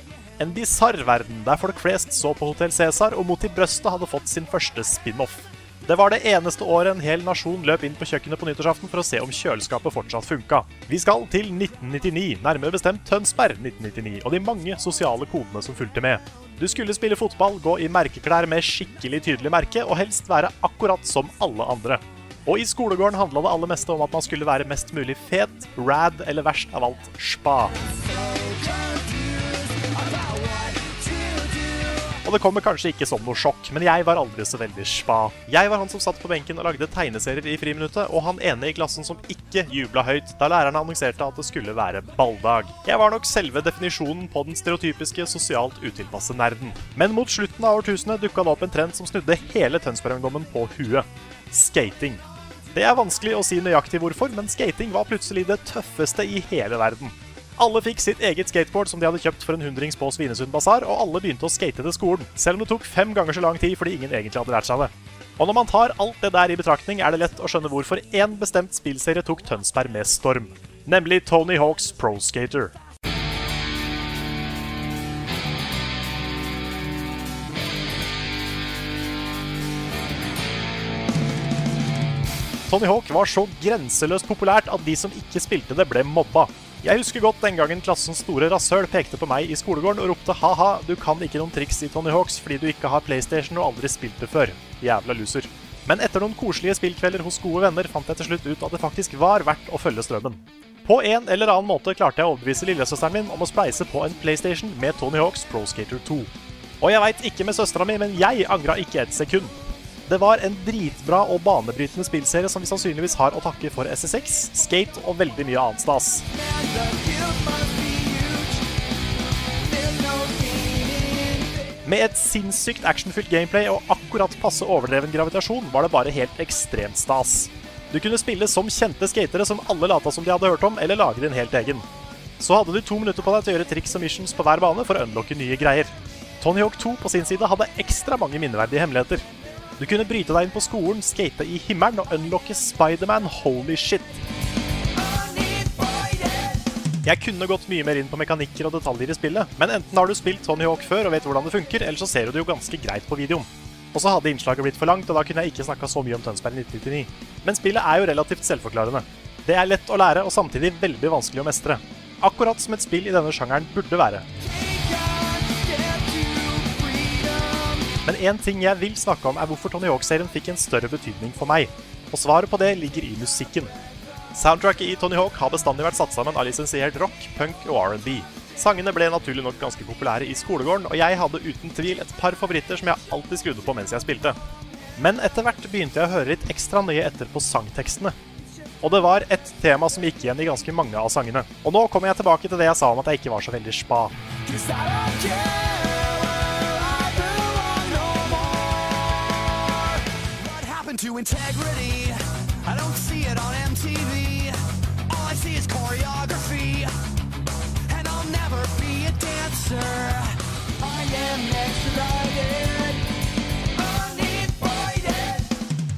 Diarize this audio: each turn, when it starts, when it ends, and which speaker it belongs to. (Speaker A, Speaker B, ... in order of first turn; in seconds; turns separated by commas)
Speaker A: 0.4-27.7, Speaker B: 27.9-32.2, Speaker A: 32.2-72.7, Speaker A: 82.7-106.3, Speaker A: 106.8-116.2, Speaker B: 116.3-118.7, Speaker B: 119.6-121.7, Speaker A: 121.9-131.9, Speaker A: 132.4-139.2, Speaker A: 139.8-144.2, Speaker B: 144.9-146.7, Speaker A: 147.1-164.3, Speaker B: 164.4-167.9, Speaker A: 168.1-173.7, Speaker A: 174.3-184.4, Speaker A: 185.0-188.2, Speaker A: 188.8-194.1, Speaker B: 194.4-204.6, Speaker B: 205.1-206.9, Speaker B: 207.9-213.0, Speaker B: 213.7-215.6